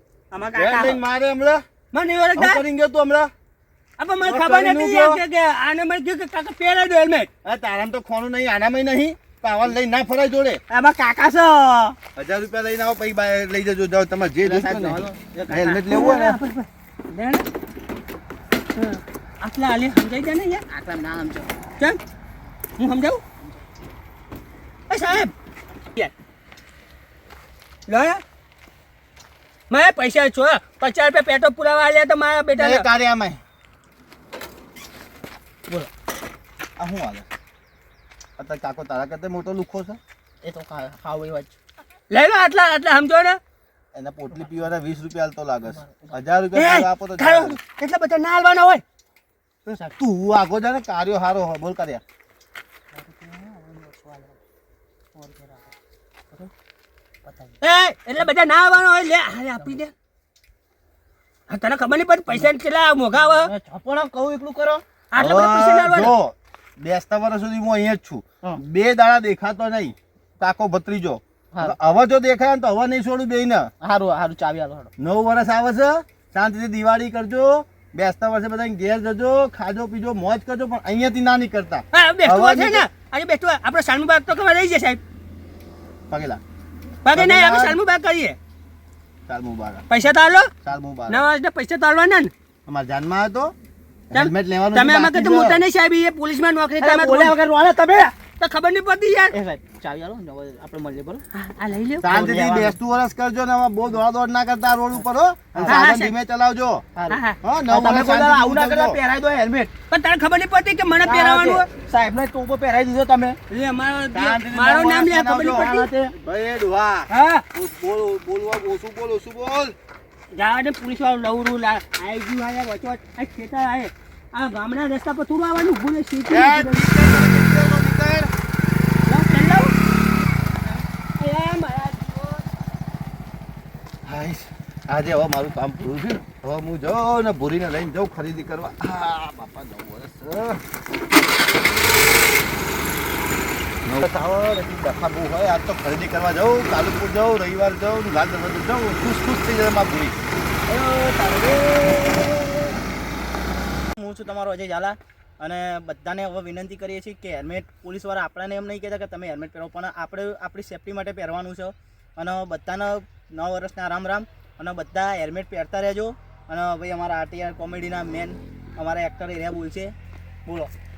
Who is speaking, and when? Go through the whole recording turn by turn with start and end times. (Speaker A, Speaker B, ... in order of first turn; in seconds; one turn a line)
Speaker A: 0.3-1.0
Speaker B: 0.5-1.6
Speaker C: 1.9-2.6
Speaker B: 2.4-3.3
Speaker C: 4.0-7.3
Speaker B: 4.2-5.2
Speaker B: 7.4-10.6
Speaker A: 10.7-12.0
Speaker B: 12.2-16.4
Speaker A: 14.4-16.0
Speaker C: 15.9-17.5
Speaker C: 18.8-20.6
Speaker A: 20.7-21.5
Speaker C: 22.8-23.2
Speaker C: 24.9-25.3
Speaker C: 27.9-28.2
Speaker C: 29.7-32.9
Speaker B: 32.5-33.4
Speaker B: 36.8-37.3
Speaker B: 38.4-40.0
Speaker A: 40.4-41.5
Speaker C: 42.1-43.4
Speaker B: 43.9-47.6
Speaker A: 45.7-46.2
Speaker C: 46.5-48.8
Speaker A: 49.7-50.0
Speaker B: 50.0-52.0
Speaker A: 52.9-54.4
Speaker A: 55.1-55.7
Speaker A: 57.2-57.6
Speaker C: 57.6-59.9
Speaker C: 61.5-63.5
Speaker A: 63.2-64.8
Speaker C: 65.1-66.2
Speaker B: 65.2-73.7
Speaker A: 73.8-74.9
Speaker B: 75.0-82.9
Speaker C: 81.9-85.0
Speaker B: 86.1-86.4
Speaker C: 87.0-88.4
Speaker B: 87.2-87.8
Speaker B: 89.3-89.9
Speaker C: 89.9-90.5
Speaker B: 90.6-91.2
Speaker C: 91.1-92.3
Speaker B: 92.7-93.5
Speaker B: 94.1-95.6
Speaker C: 94.1-97.3
Speaker A: 96.8-98.2
Speaker C: 98.4-99.3
Speaker A: 99.3-101.2
Speaker C: 101.3-102.0
Speaker B: 102.0-106.8
Speaker A: 102.0-102.8
Speaker A: 105.5-106.0
Speaker C: 105.7-106.1
Speaker A: 107.0-109.7
Speaker C: 107.1-107.4
Speaker B: 107.4-109.0
Speaker C: 109.9-111.7
Speaker A: 111.0-113.4
Speaker C: 113.5-115.9
Speaker B: 114.1-119.8
Speaker A: 115.5-116.1
Speaker C: 117.1-117.5
Speaker C: 120.3-127.2
Speaker B: 126.3-128.3
Speaker C: 129.1-129.7
Speaker C: 131.2-132.4
Speaker B: 134.1-140.6
Speaker B: 143.8-150.2
Speaker A: 150.7-152.7
Speaker A: 153.9-169.9